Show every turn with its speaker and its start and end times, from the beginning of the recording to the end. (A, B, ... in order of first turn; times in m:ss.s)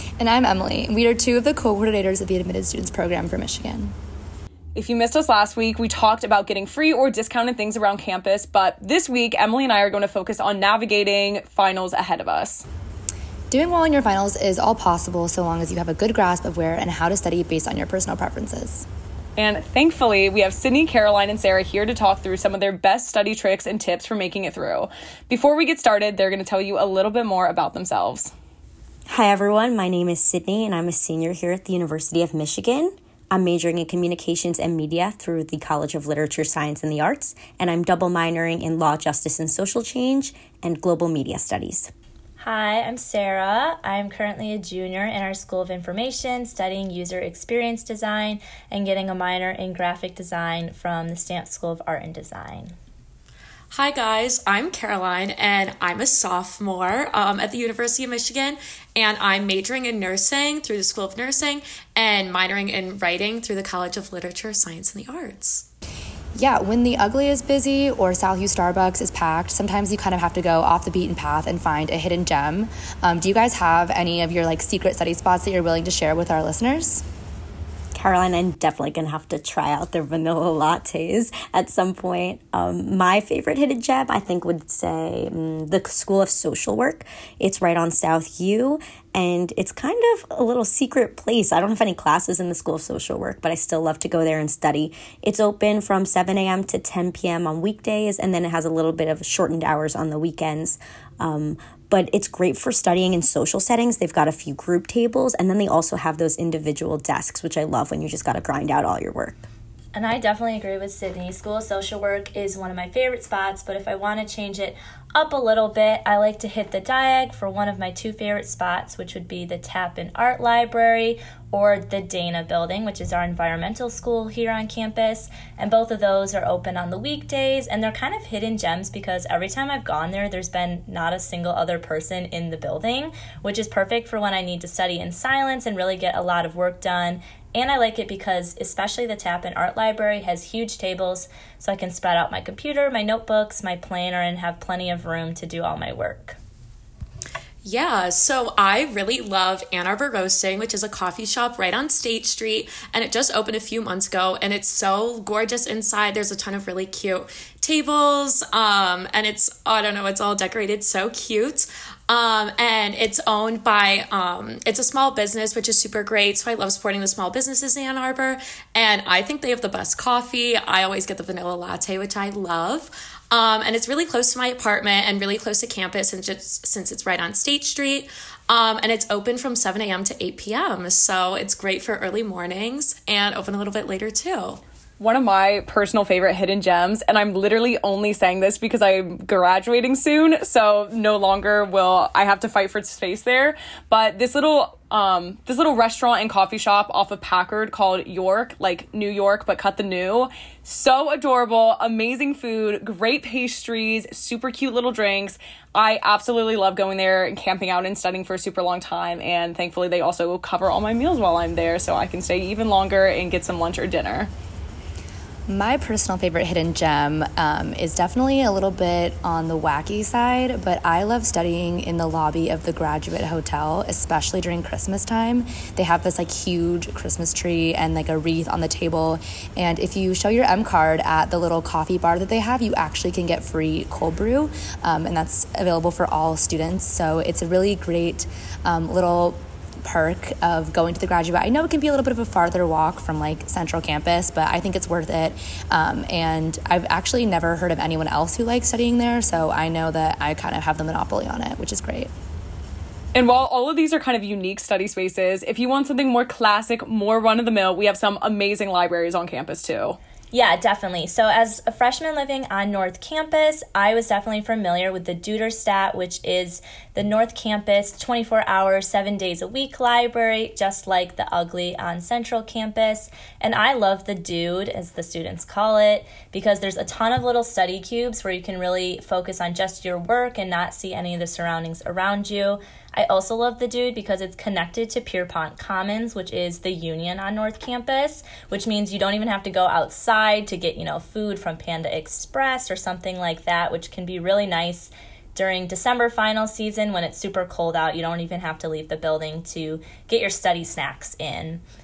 0:00.2-0:03.9 A
0:04.7-0:12.6 B
0:13.5-0:18.9 A
0:19.4-0:28.3 B
0:29.1-0:41.9 C
0:42.4-0:52.7 D
0:53.7-1:05.7 E
1:06.4-1:17.0 A
1:17.9-1:49.5 C
1:49.9-2:26.4 D
2:27.6-3:04.6 E
3:05.0-3:34.3 B
3:35.5-4:12.1 A
4:13.1-4:20.0 B
4:20.3-5:01.6 D